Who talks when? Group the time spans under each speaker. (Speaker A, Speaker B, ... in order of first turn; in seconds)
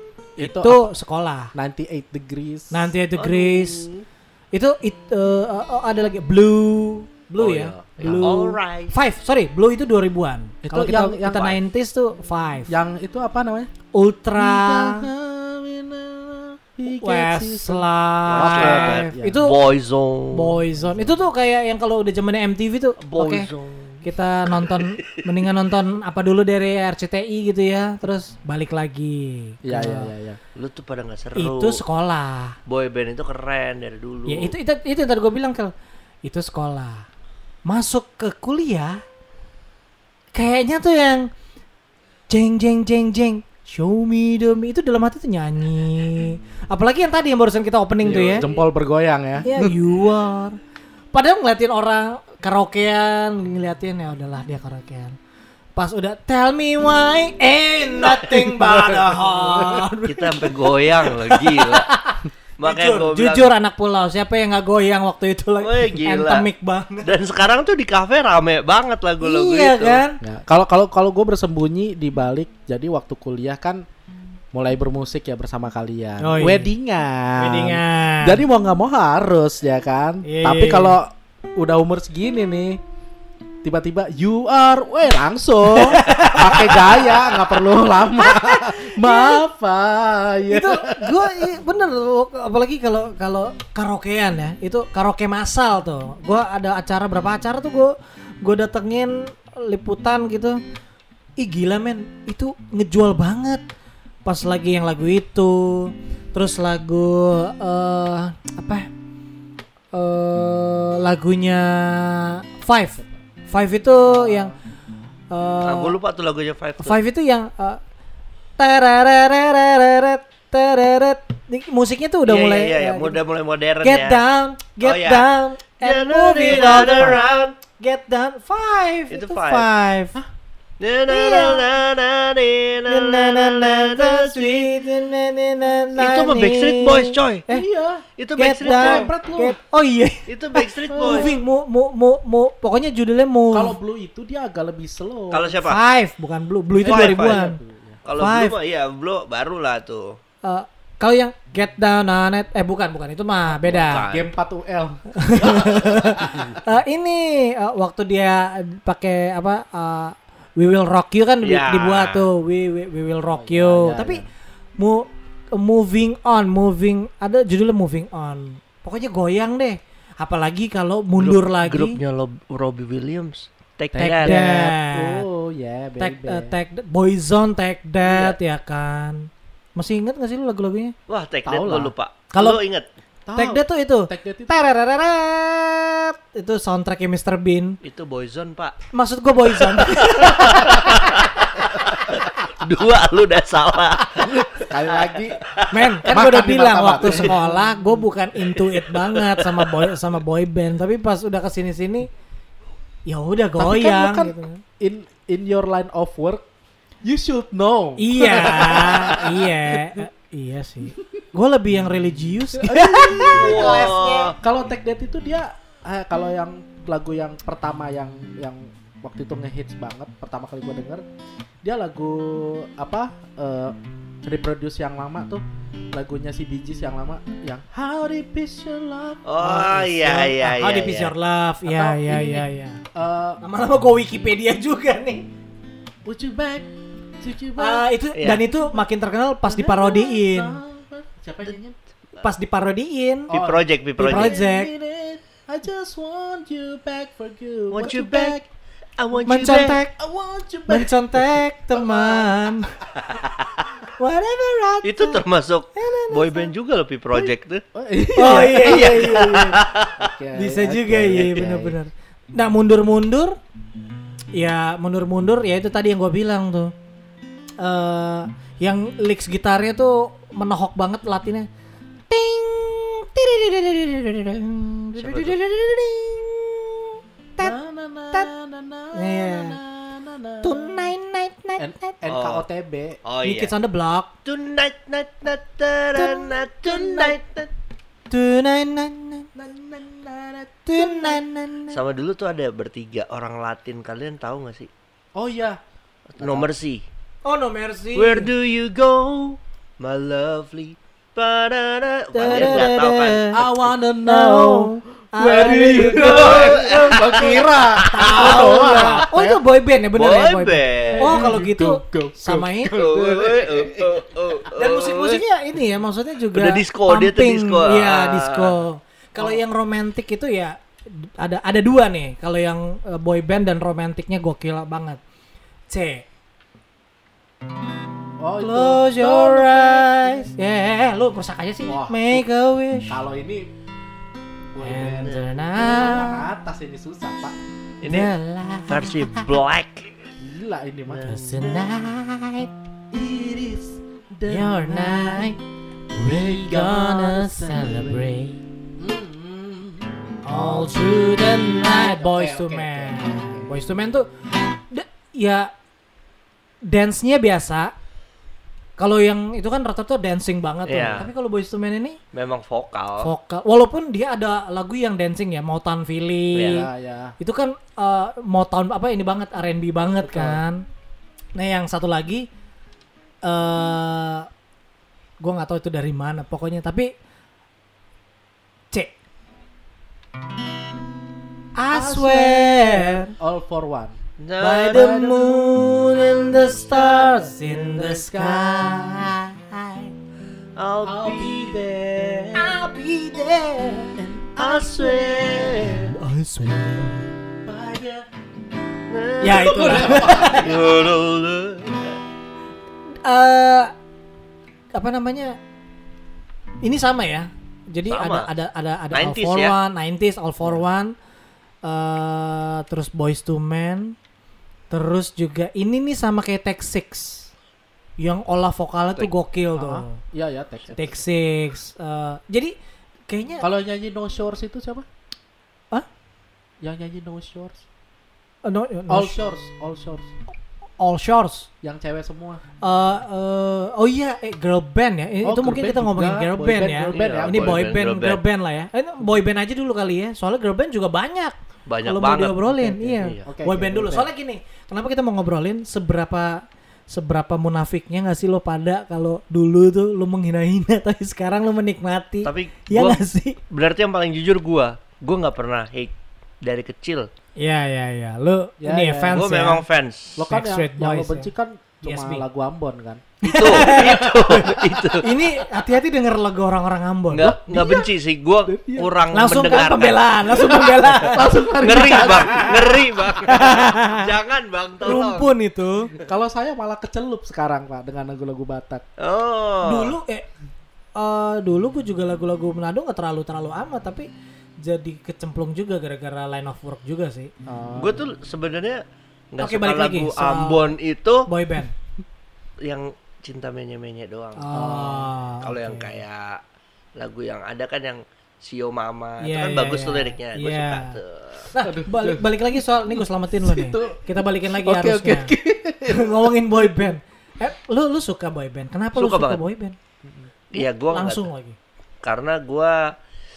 Speaker A: 0.4-0.9, 1.5-2.9, 8.0-8.3, 10.6-11.5, 12.7-13.7, 14.3-19.4, 20.8-21.2, 29.6-30.4, 48.0-49.8, 58.0-59.8, 70.2-73.8, 74.5-82.8, 83.6-91.4, 114.0-114.6, 137.5-138.1, 138.6-139.6, 140.9-141.4, 143.5-145.6, 146.8-148.0, 153.7-155.1, 156.2-156.6, 163.2-164.2, 173.9-176.6, 181.4-181.9, 183.3-184.6, 194.2-195.4, 196.0-197.7, 203.6-206.4, 207.0-210.0, 212.5-221.0, 221.6-229.6, 231.6-233.4, 236.0-237.8, 238.6-238.8, 239.4-241.8, 243.3-248.5, 249.1-252.4, 257.1-259.4, 260.0-261.8, 277.4-280.7, 281.6-283.0, 286.6-287.2, 289.3-291.2, 295.1-295.6, 296.2-296.5, 302.2-302.7, 303.3-309.4, 310.9-314.0, 328.2-330.3, 331.6-332.2, 332.9-333.5, 334.5-337.4, 340.2-341.1, 342.9-345.3, 346.0-348.1, 348.8-353.5, 366.4-367.1, 370.0-370.4, 381.7-384.0, 384.6-388.8, 390.8-392.6, 393.9-395.9, 397.4-398.1, 399.3-400.9, 419.6-421.0, 423.4-424.9, 426.6-427.6, 428.9-430.1, 431.6-432.4, 435.2-437.7, 442.5-444.1, 458.6-459.3, 460.1-464.6, 467.1-467.9, 468.4-468.9, 470.3-472.9, 476.0-478.8, 487.4-488.1, 494.5-495.1, 501.6-506.9
Speaker B: 0.4-1.5, 2.7-3.9, 4.5-12.7, 13.9-15.1, 16.9-19.6, 20.3-23.5, 24.0-30.1, 31.3-32.6, 34.3-37.1, 37.6-39.0, 40.3-41.3, 42.3-48.5, 49.4-50.6, 51.1-55.1, 55.8-67.1, 69.2-70.2, 76.2-76.7, 77.4-78.4, 80.2-81.0, 85.7-87.3, 88.2-89.4, 90.5-100.6, 101.4-103.6, 104.2-108.9, 109.9-114.5, 115.3-116.0, 116.8-117.8, 118.6-123.2, 123.8-127.2, 127.8-130.1, 131.1-131.7, 132.9-137.7, 138.4-143.8, 145.6-147.6, 148.2-148.5, 150.4-154.1, 155.1-164.2, 164.8-172.0, 174.0-175.2, 176.0-180.9, 182.3-182.6, 183.3-187.8, 188.9-191.1, 195.7-202.1, 203.1-204.6, 208.0-214.3, 229.4-232.8, 233.4-235.3, 237.6-240.6, 242.2-243.3, 244.0-244.7, 249.3-250.0, 250.7-252.8, 254.0-255.2, 255.7-256.5, 258.1-259.6, 260.3-263.4, 264.3-266.7, 267.6-271.5, 272.1-277.6, 278.9-279.6, 280.4-281.9, 283.2-284.1, 285.9-286.4, 288.1-289.3, 290.7-291.8, 297.2-298.3, 302.1-303.4, 304.0-312.8, 314.5-325.0, 325.7-326.1, 328.4-333.0, 334.6-336.3, 337.8-339.3, 341.1-342.5, 344.2-345.4, 345.9-348.4, 350.2-354.1, 354.7-355.5, 356.7-357.7, 358.8-362.0, 363.0-370.6, 371.3-372.3, 373.2-374.3, 375.2-376.9, 381.6-383.1, 384.4-389.9, 392.3-393.9, 395.8-397.1, 399.2-400.4, 403.0-403.7, 404.7-405.4, 406.6-410.9, 411.6-413.9, 414.7-417.3, 418.0-420.0, 420.8-422.5, 423.1-423.4, 428.4-429.2, 430.8-431.5, 432.6-453.4, 457.4-459.6, 460.3-461.3, 461.8-462.2, 463.2-467.3, 469.1-472.3, 473.2-474.1, 474.8-475.9, 479.6-480.3, 480.9-484.1, 484.6-487.3, 489.4-490.7, 491.3-491.7, 494.4-496.0, 499.2-501.0, 501.5-505.3, 505.9-509.8, 510.6-511.6
Speaker C: 3.2-4.0, 7.4-8.9, 11.3-11.6, 18.3-20.6, 23.0-25.2, 30.5-31.8, 32.7-34.5, 60.0-61.9, 62.6-63.5, 65.6-66.5, 67.0-70.0, 115.6-117.0, 122.2-124.2, 124.8-127.5, 129.1-129.7, 130.8-134.7, 135.9-137.4, 138.2-139.1, 140.3-141.3, 145.3-145.8, 146.8-147.4, 148.1-150.2, 153.6-154.3, 155.3-156.2, 161.4-162.3, 171.2-174.4, 178.0-178.4, 181.1-182.8, 187.8-188.8, 189.5-195.7, 198.5-199.9, 213.3-214.3, 229.2-231.1, 238.1-238.5, 243.3-244.3, 247.7-248.4, 249.0-249.8, 253.0-253.7, 254.8-257.6, 258.2-260.1, 275.0-275.3, 282.1-282.4, 283.0-283.5, 284.2-287.4, 291.7-294.7, 296.1-296.8, 297.9-303.7, 305.9-309.1, 310.0-311.3, 312.7-315.2, 316.3-318.5, 337.8-338.1, 338.7-340.1, 340.9-341.7, 360.7-361.1, 362.1-363.1, 366.4-366.6, 384.2-385.0, 390.6-391.5, 394.4-395.9, 398.9-402.0, 407.9-408.3, 408.9-409.6, 436.9-438.2, 441.7-443.2, 452.2-457.1, 459.1-460.2, 463.2-465.1, 467.1-470.1, 471.6-475.3, 479.0-479.9, 487.8-488.8, 489.3-491.3, 492.6-494.5, 495.4-496.4, 497.0-501.5, 508.9-509.4, 510.5-511.3, 512.0-512.9